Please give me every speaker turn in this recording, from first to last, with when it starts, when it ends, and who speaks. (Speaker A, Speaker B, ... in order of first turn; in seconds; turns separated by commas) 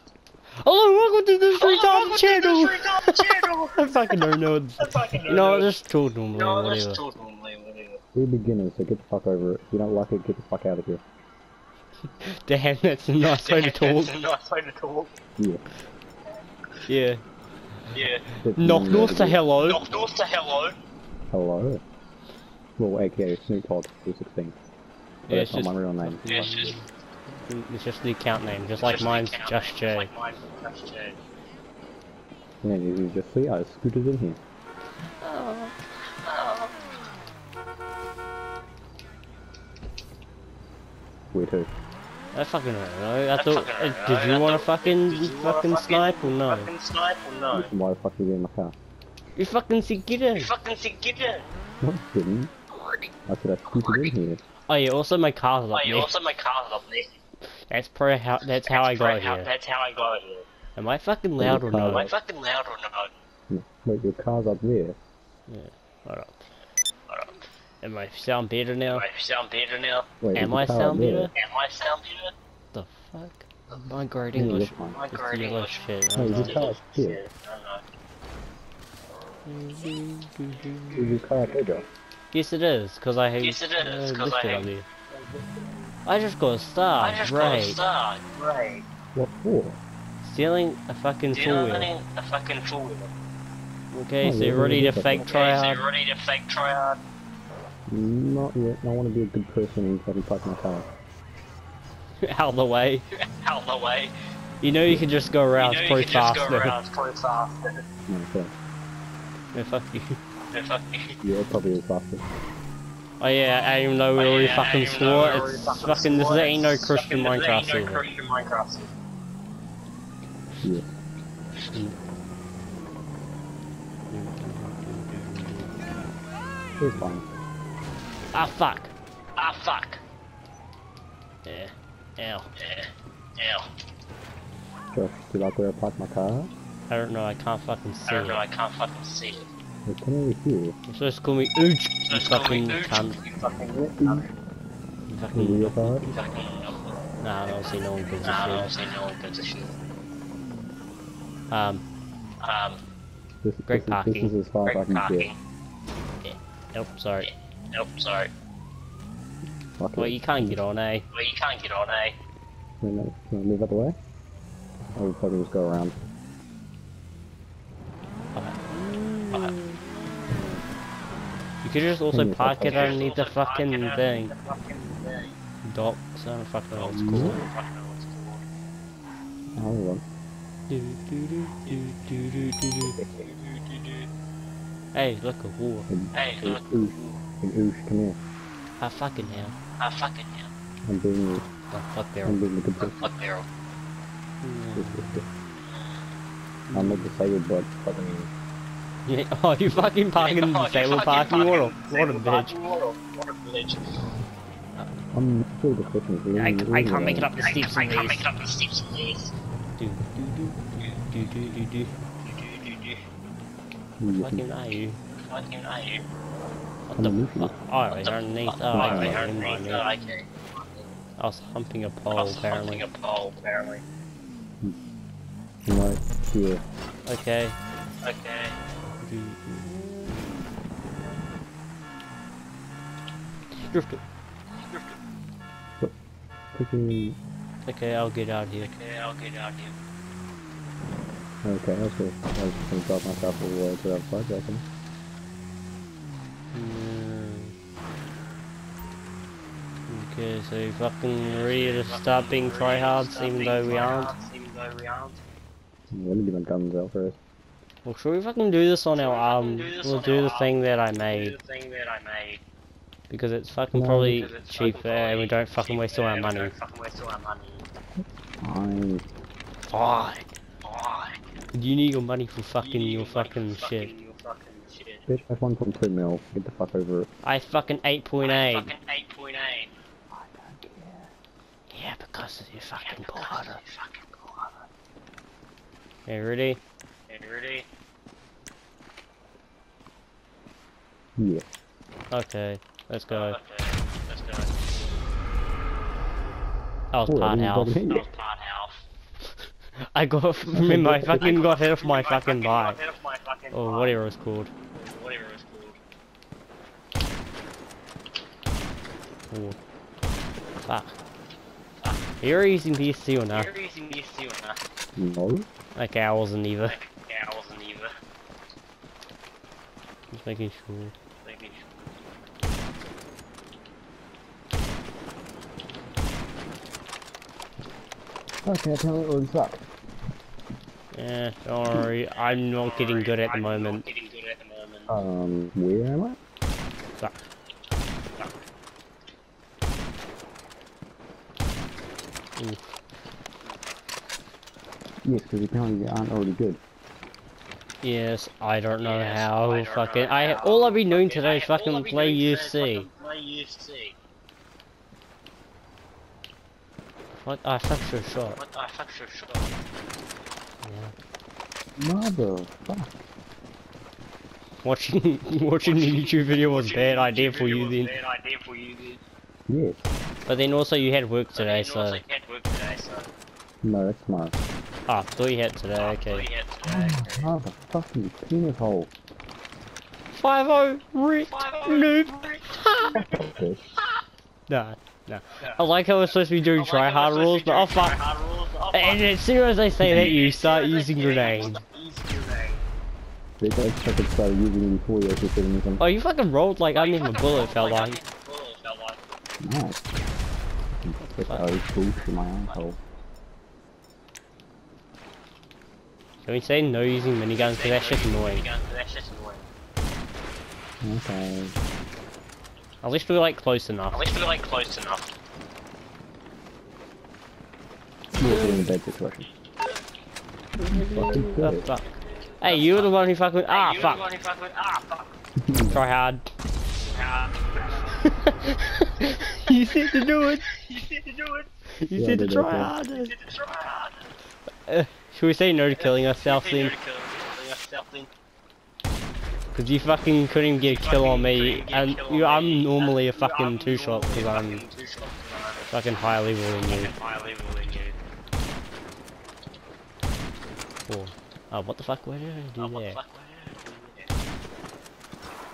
Speaker A: 0.6-7.0, Speaker B: 1.6-5.7, Speaker B: 6.3-8.0, Speaker C: 8.2-11.0, Speaker A: 12.2-14.2, Speaker B: 13.2-15.1, Speaker A: 16.9-17.2, Speaker B: 17.9-18.3, Speaker C: 18.4-19.4, Speaker A: 18.6-19.9, Speaker B: 19.6-20.8, Speaker C: 21.3-21.8, Speaker C: 22.8-24.6, Speaker A: 25.3-30.1, Speaker C: 25.3-26.7, Speaker B: 26.3-26.8, Speaker B: 28.8-31.2, Speaker C: 32.6-34.4, Speaker A: 35.2-35.8, Speaker B: 36.2-37.1, Speaker C: 41.3-41.7, Speaker A: 42.3-46.7, Speaker B: 43.4-47.7, Speaker C: 47.5-48.8, Speaker A: 49.4-50.5, Speaker B: 50.4-51.5, Speaker C: 51.8-52.5, Speaker B: 52.7-53.1, Speaker C: 53.3-54.4, Speaker B: 53.7-54.2, Speaker A: 54.7-56.1, Speaker B: 55.7-57.2, Speaker A: 57.7-59.5, Speaker B: 58.6-60.5, Speaker A: 60.8-62.1, Speaker C: 61.4-62.1, Speaker B: 61.9-63.1, Speaker C: 63.5-65.0, Speaker A: 65.5-66.4, Speaker A: 67.8-69.0, Speaker B: 68.9-70.1, Speaker C: 70.2-71.3, Speaker A: 70.3-71.3, Speaker B: 71.3-72.3, Speaker A: 72.7-76.7, Speaker C: 74.3-75.0, Speaker B: 74.9-77.9, Speaker C: 76.2-77.2, Speaker A: 79.5-81.1, Speaker C: 81.0-81.8, Speaker B: 81.2-81.8, Speaker A: 82.3-84.9, Speaker B: 83.4-84.7, Speaker A: 86.1-87.8, Speaker B: 87.0-88.9, Speaker C: 89.2-89.8, Speaker A: 90.2-91.9, Speaker B: 91.3-93.1, Speaker A: 93.9-95.8, Speaker C: 94.2-95.3, Speaker B: 95.2-97.0, Speaker C: 97.9-100.9, Speaker A: 102.2-103.0, Speaker B: 103.2-104.1, Speaker A: 104.6-106.8, Speaker B: 105.5-107.8, Speaker C: 108.1-108.5, Speaker A: 109.5-110.2, Speaker B: 110.5-111.2, Speaker C: 111.2-112.3, Speaker A: 113.2-118.0, Speaker B: 114.2-118.9, Speaker C: 120.6-120.9, Speaker A: 124.1-126.0, Speaker C: 126.8-127.3, Speaker A: 128.3-128.9, Speaker B: 129.4-130.0, Speaker A: 131.5-132.5, Speaker B: 132.6-133.7, Speaker C: 134.9-136.5, Speaker A: 136.9-138.4, Speaker B: 138.1-139.5, Speaker C: 139.9-140.8, Speaker A: 140.9-143.2, Speaker B: 142.1-144.3, Speaker C: 144.0-144.3, Speaker A: 145.1-146.2, Speaker C: 145.3-146.1, Speaker B: 146.1-146.9, Speaker A: 147.2-148.8, Speaker B: 148.2-149.8, Speaker A: 151.5-151.8, Speaker B: 152.4-152.8, Speaker C: 153.4-155.3, Speaker A: 153.7-154.4, Speaker B: 154.6-155.4, Speaker A: 156.2-157.3, Speaker B: 157.2-158.3, Speaker C: 159.8-160.6, Speaker A: 160.0-161.1, Speaker B: 161.1-162.2, Speaker C: 162.8-164.0, Speaker C: 164.9-166.0, Speaker A: 168.3-169.8, Speaker A: 171.6-174.3, Speaker C: 172.1-173.0, Speaker B: 172.6-175.4, Speaker A: 175.6-177.5, Speaker B: 176.7-178.5, Speaker C: 177.0-177.4, Speaker C: 179.6-180.1, Speaker A: 180.7-183.0, Speaker C: 182.9-183.3, Speaker B: 183.0-184.1, Speaker A: 184.9-185.9, Speaker C: 185.9-188.2, Speaker B: 186.1-187.2, Speaker A: 188.8-189.6, Speaker B: 189.8-190.5, Speaker C: 190.9-191.5, Speaker A: 191.7-192.4, Speaker C: 192.2-193.1, Speaker B: 192.8-193.5, Speaker A: 194.4-195.2, Speaker C: 194.8-195.3, Speaker B: 195.6-196.0, Speaker A: 196.7-197.1, Speaker C: 196.7-198.3, Speaker A: 199.1-202.6, Speaker B: 200.2-203.9, Speaker C: 205.1-207.3, Speaker A: 206.4-208.3, Speaker B: 207.4-209.3, Speaker A: 209.8-211.9, Speaker B: 212.2-213.0, Speaker C: 214.0-214.5, Speaker A: 214.2-215.0, Speaker B: 215.3-216.1, Speaker A: 216.9-219.9, Speaker C: 217.0-217.6, Speaker B: 217.9-221.0, Speaker C: 218.7-219.2, Speaker A: 221.2-222.9, Speaker B: 222.1-223.8, Speaker C: 225.7-226.6, Speaker A: 227.1-227.6, Speaker B: 228.0-228.6, Speaker A: 229.0-230.2, Speaker A: 233.5-234.0, Speaker B: 234.5-235.0, Speaker C: 236.5-237.2, Speaker A: 237.7-238.7, Speaker B: 238.6-239.8, Speaker C: 241.4-244.7, Speaker A: 246.5-247.6, Speaker A: 249.9-254.1, Speaker B: 251.2-255.2, Speaker C: 255.9-257.2, Speaker A: 257.9-261.4, Speaker B: 258.9-262.4, Speaker A: 263.1-266.5, Speaker C: 263.7-264.3, Speaker B: 264.1-267.6, Speaker C: 268.4-269.1, Speaker A: 269.7-270.2, Speaker B: 270.6-271.2, Speaker A: 271.5-273.9, Speaker B: 272.6-275.1, Speaker C: 275.1-277.1, Speaker A: 277.2-278.7, Speaker B: 278.2-279.7, Speaker C: 280.1-281.1, Speaker A: 281.7-283.6, Speaker B: 282.8-284.5, Speaker A: 286.1-286.6, Speaker B: 287.1-287.7, Speaker C: 291.2-291.5, Speaker A: 292.1-293.4, Speaker B: 293.1-294.5, Speaker A: 296.9-298.1, Speaker C: 297.1-298.1, Speaker B: 297.9-298.8, Speaker A: 299.9-302.8, Speaker C: 300.5-301.3, Speaker B: 301.2-304.0, Speaker A: 303.5-304.5, Speaker B: 304.7-305.8, Speaker A: 309.3-309.6, Speaker A: 310.6-311.0, Speaker A: 312.2-313.5, Speaker B: 313.3-314.6, Speaker C: 315.0-315.5, Speaker A: 315.8-316.8, Speaker B: 316.7-317.9, Speaker A: 320.1-320.9, Speaker B: 321.2-321.8, Speaker C: 328.4-329.6, Speaker A: 330.9-333.8, Speaker B: 332.1-334.9, Speaker C: 334.9-336.2, Speaker A: 342.4-342.7, Speaker C: 345.1-346.6, Speaker A: 347.8-352.9, Speaker B: 348.8-353.9, Speaker A: 357.2-358.4, Speaker B: 358.4-359.6, Speaker A: 360.6-360.9, Speaker C: 361.8-362.9, Speaker A: 364.6-367.9, Speaker B: 365.6-369.0, Speaker C: 369.5-369.9, Speaker A: 370.3-372.0, Speaker B: 371.4-373.1, Speaker C: 373.6-374.4, Speaker A: 374.9-376.3, Speaker B: 375.8-377.3, Speaker C: 376.6-378.9, Speaker A: 380.1-383.1, Speaker B: 381.3-383.9, Speaker C: 382.9-383.6, Speaker A: 384.5-388.0, Speaker B: 386.4-389.0, Speaker A: 388.7-391.6, Speaker B: 389.9-392.6, Speaker C: 389.9-390.1, Speaker C: 393.4-395.8, Speaker A: 395.8-398.0, Speaker B: 396.8-399.0, Speaker C: 399.4-399.8, Speaker C: 400.8-402.8, Speaker A: 401.0-401.5, Speaker A: 406.2-408.5, Speaker B: 407.4-409.5, Speaker C: 410.8-411.6, Speaker A: 412.8-414.0, Speaker B: 413.9-415.1, Speaker C: 418.2-419.3, Speaker A: 418.2-418.7, Speaker A: 420.6-424.1, Speaker C: 420.6-421.7, Speaker B: 422.1-425.1, Speaker C: 425.4-425.8, Speaker A: 425.7-426.3, Speaker B: 426.9-428.0, Speaker A: 428.0-430.5, Speaker B: 429.3-431.5, Speaker A: 431.8-433.1, Speaker C: 431.9-432.7, Speaker B: 432.9-434.1, Speaker A: 434.7-436.8, Speaker B: 435.7-438.1, Speaker A: 439.5-444.6, Speaker B: 440.6-445.7, Speaker A: 445.7-446.9, Speaker B: 446.6-448.0, Speaker A: 450.9-453.0, Speaker B: 452.6-454.1